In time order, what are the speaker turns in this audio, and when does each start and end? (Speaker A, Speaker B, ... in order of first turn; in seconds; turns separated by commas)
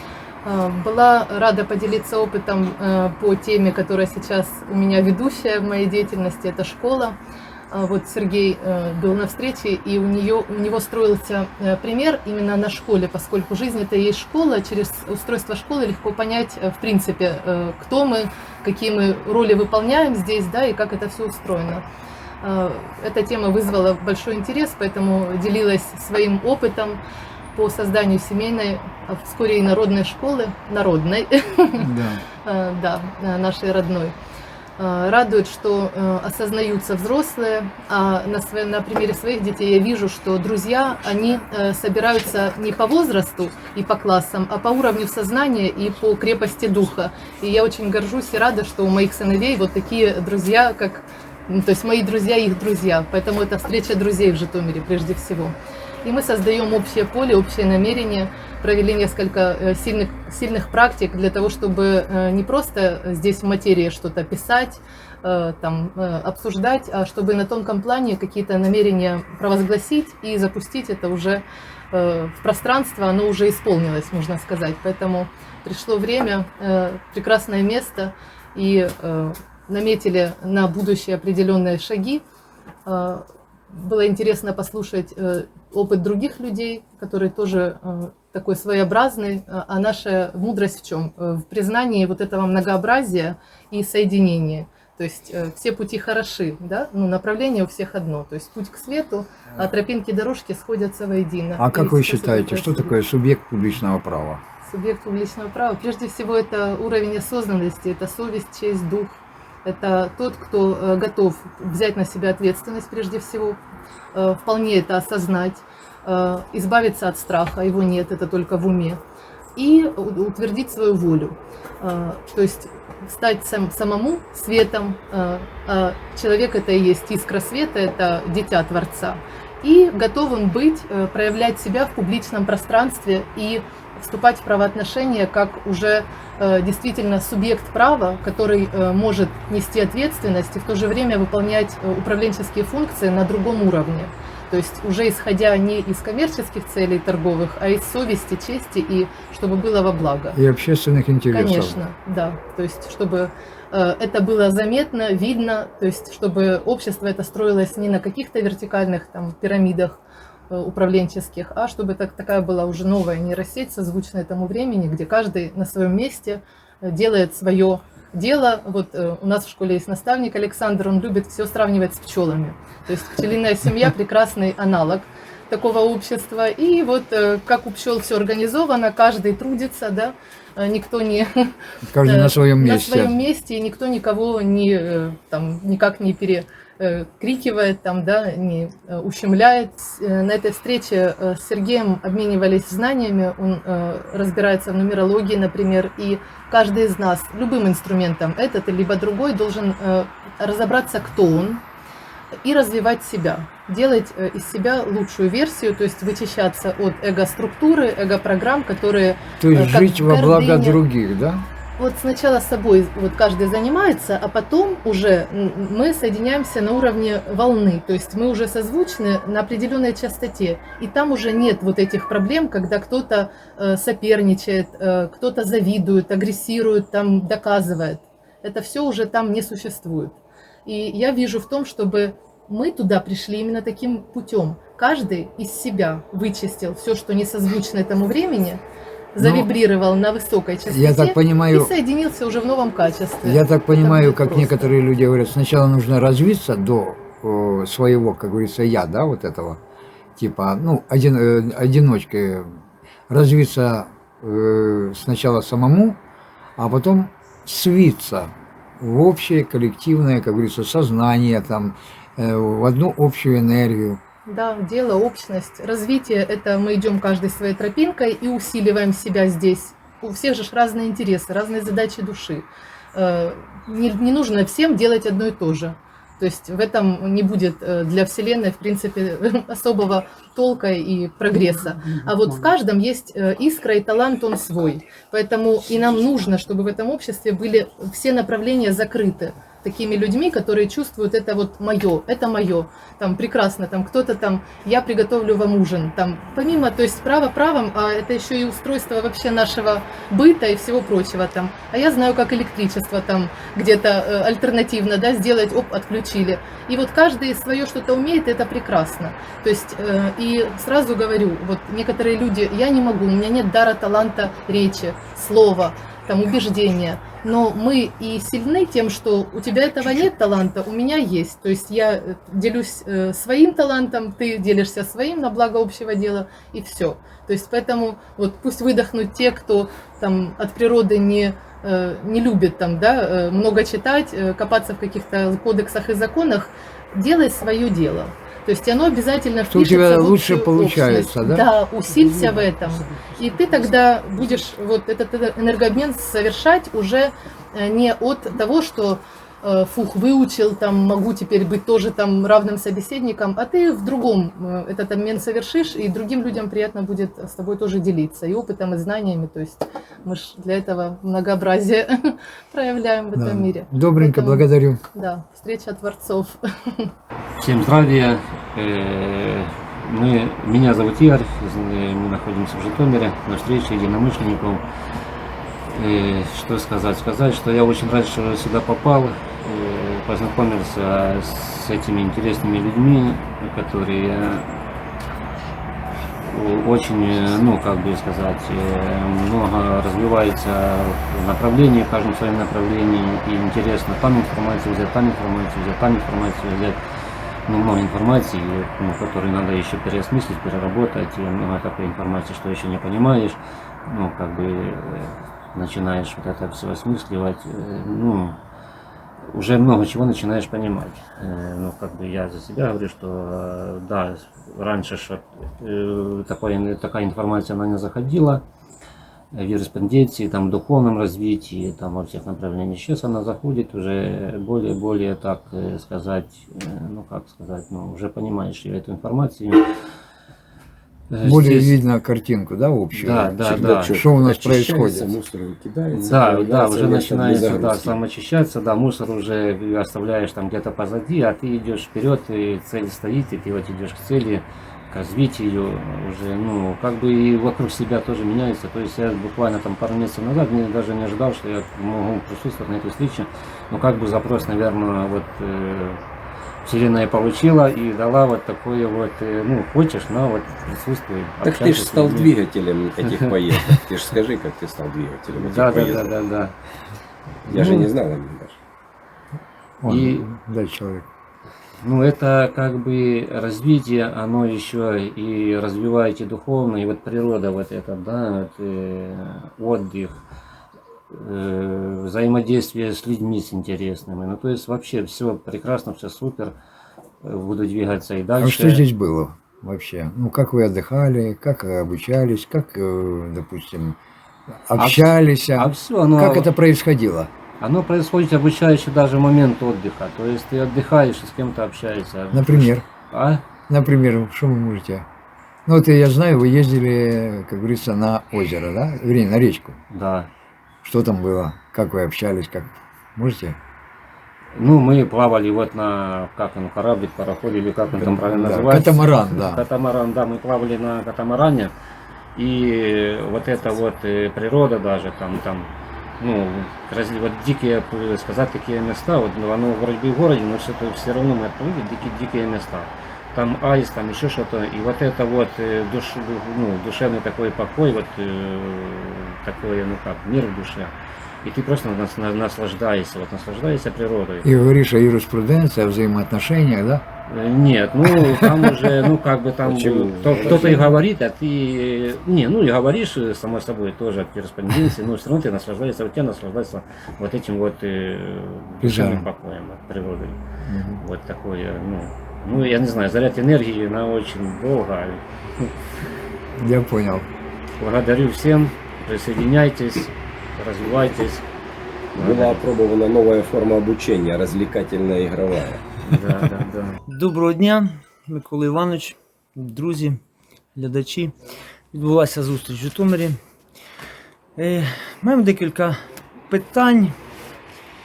Speaker A: 0.4-7.2, Speaker A: 7.7-21.8, Speaker A: 22.4-27.0, Speaker A: 27.5-31.9, Speaker B: 31.8-32.2, Speaker A: 32.4-34.1, Speaker A: 34.8-82.2, Speaker A: 82.8-102.9, Speaker B: 101.6-104.4, Speaker A: 104.7-113.6, Speaker A: 114.1-119.0, Speaker A: 119.5-150.4, Speaker B: 150.3-151.8, Speaker A: 151.3-181.5, Speaker B: 181.9-183.1, Speaker A: 182.1-201.6, Speaker A: 202.4-210.8, Speaker B: 209.4-211.4, Speaker A: 211.8-238.6, Speaker A: 239.1-244.7, Speaker B: 239.2-239.5, Speaker B: 240.7-241.7, Speaker B: 243.2-249.6, Speaker B: 250.2-252.6, Speaker B: 253.1-256.0, Speaker B: 256.6-264.0, Speaker A: 264.2-366.9, Speaker B: 339.5-341.4, Speaker B: 363.1-364.8, Speaker C: 367.4-374.6, Speaker C: 375.6-384.6, Speaker C: 386.2-396.8, Speaker C: 397.4-408.4, Speaker C: 409.2-418.4, Speaker C: 419.3-429.6, Speaker C: 431.1-431.8, Speaker B: 431.2-435.1, Speaker C: 432.9-433.9, Speaker D: 433.4-438.0, Speaker C: 435.9-456.0, Speaker C: 456.6-462.3, Speaker D: 461.4-466.1, Speaker C: 463.0-463.8, Speaker C: 465.3-466.5, Speaker D: 467.5-468.6, Speaker B: 467.5-467.9, Speaker B: 469.8-471.1, Speaker C: 469.9-470.2, Speaker C: 471.8-480.2, Speaker C: 481.1-486.5, Speaker C: 487.2-488.8, Speaker B: 488.4-494.0, Speaker B: 494.6-497.3, Speaker C: 494.8-496.5, Speaker C: 497.6-503.4, Speaker B: 502.3-502.8, Speaker B: 503.7-505.1, Speaker B: 505.6-509.8, Speaker C: 509.9-510.3, Speaker B: 510.8-513.6, Speaker C: 514.5-521.7, Speaker B: 518.3-519.6, Speaker C: 522.4-544.5, Speaker B: 544.4-547.0, Speaker C: 547.3-560.4, Speaker B: 548.2-549.0, Speaker D: 549.6-550.9, Speaker B: 550.5-550.8, Speaker B: 558.8-559.3, Speaker B: 560.7-561.0, Speaker C: 561.0-565.7, Speaker B: 566.6-567.3, Speaker C: 567.8-571.4, Speaker C: 572.1-572.6, Speaker D: 572.1-575.8, Speaker C: 576.0-577.0, Speaker E: 577.1-580.2, Speaker E: 580.7-581.3, Speaker E: 581.9-583.4, Speaker E: 584.6-586.0, Speaker E: 586.5-587.1